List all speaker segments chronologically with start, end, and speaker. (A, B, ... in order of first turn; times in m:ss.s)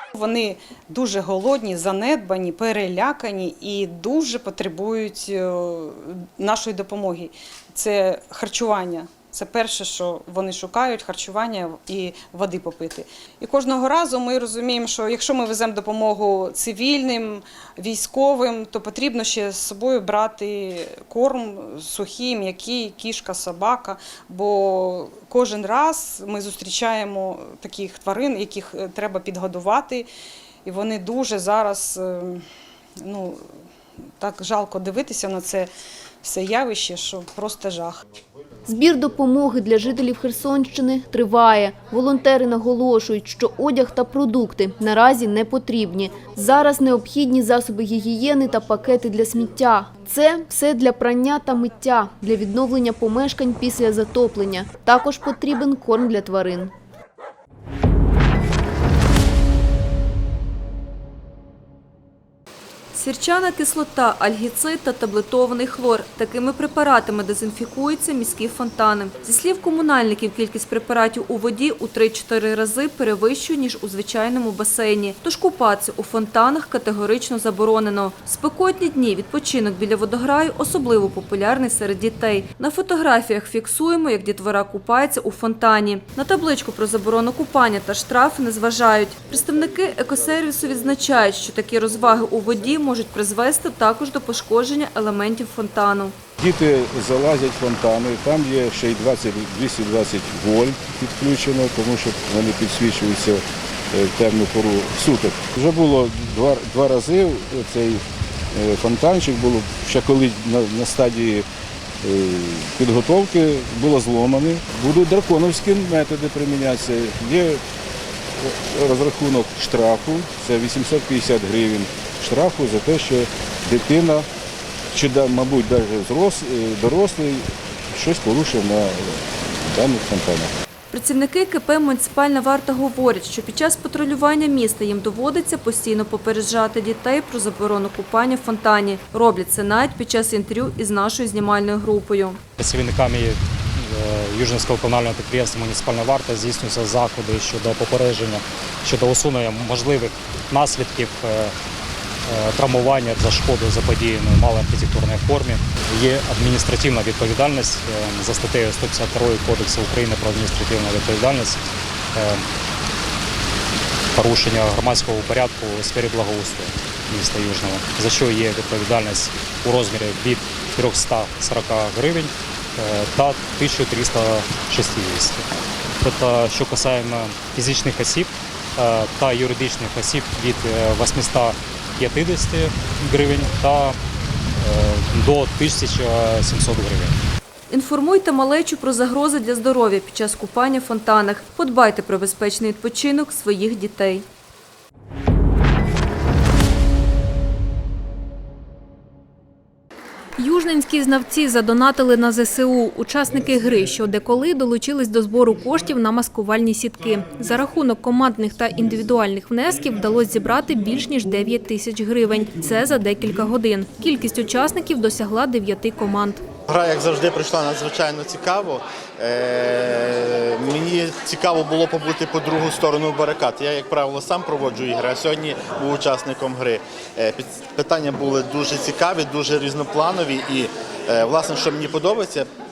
0:00.1-0:30.0 A
0:30.6-0:32.4 A
0:33.0-0:33.4 A
0:34.2-0:35.7 A
0:36.2-0:38.0 A
0:38.7-0:56.7 B
1:02.9-1:36.1 C
1:36.4-1:48.0 D
1:48.5-1:51.4 D
1:52.0-1:57.6 D
1:58.4-2:04.2 D
2:04.9-2:10.5 D
2:10.9-2:22.4 C
2:22.6-2:31.5 E
2:32.2-2:42.4 E
2:44.1-2:55.5 E
2:56.0-3:04.0 E
3:04.6-3:07.2 E
3:07.7-3:14.2 C
3:20.4-3:36.4 F
3:36.7-3:52.5 G